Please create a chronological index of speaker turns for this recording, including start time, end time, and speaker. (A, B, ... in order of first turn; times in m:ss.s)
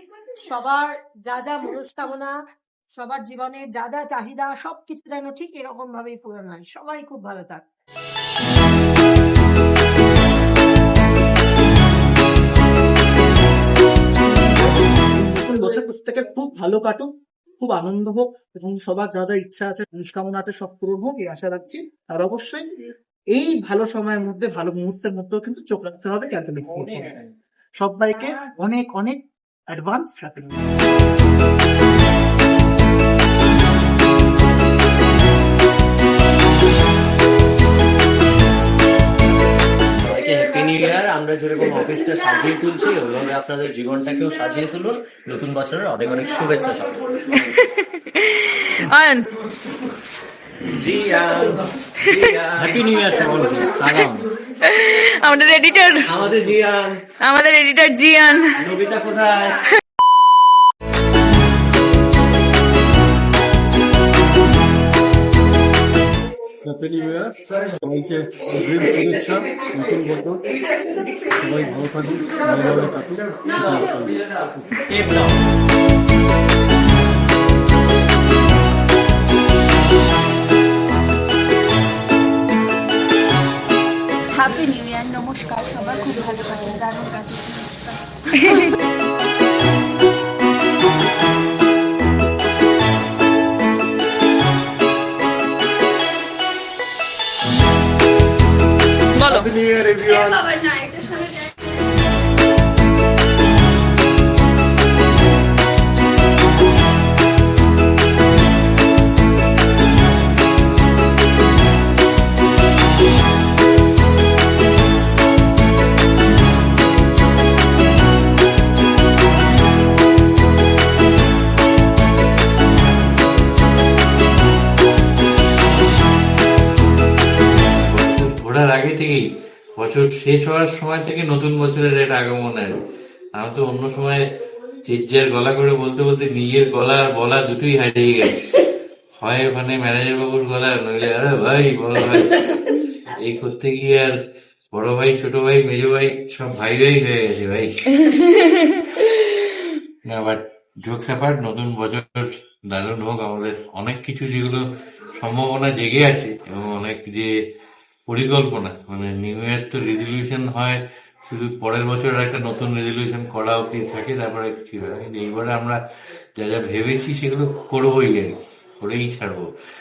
0:00.4-0:02.3 A
0:03.0-0:07.6 A
0:14.2-0:22.7 B
0:23.3-0:27.3 B
0:27.8-0:30.5 B
0:40.0-0:47.0 C
0:48.1-0:49.3 D
0:50.8-0:54.2 C
0:54.6-0:56.1 D
0:56.0-0:57.1 C
0:57.2-0:58.7 D
0:58.6-0:59.6 C
1:06.6-1:10.4 E
1:11.3-1:14.2 E
1:24.3-1:28.7 F
1:39.2-1:39.5 D
1:40.0-1:41.3 F
2:07.9-2:09.2 G
2:09.8-2:12.8 G
2:13.4-2:14.2 G
2:14.9-2:18.6 G
2:19.2-2:24.2 G
2:24.7-2:28.0 G
2:30.0-2:34.7 G
2:35.2-2:37.3 G
2:38.1-2:45.8 G
2:46.4-2:49.5 G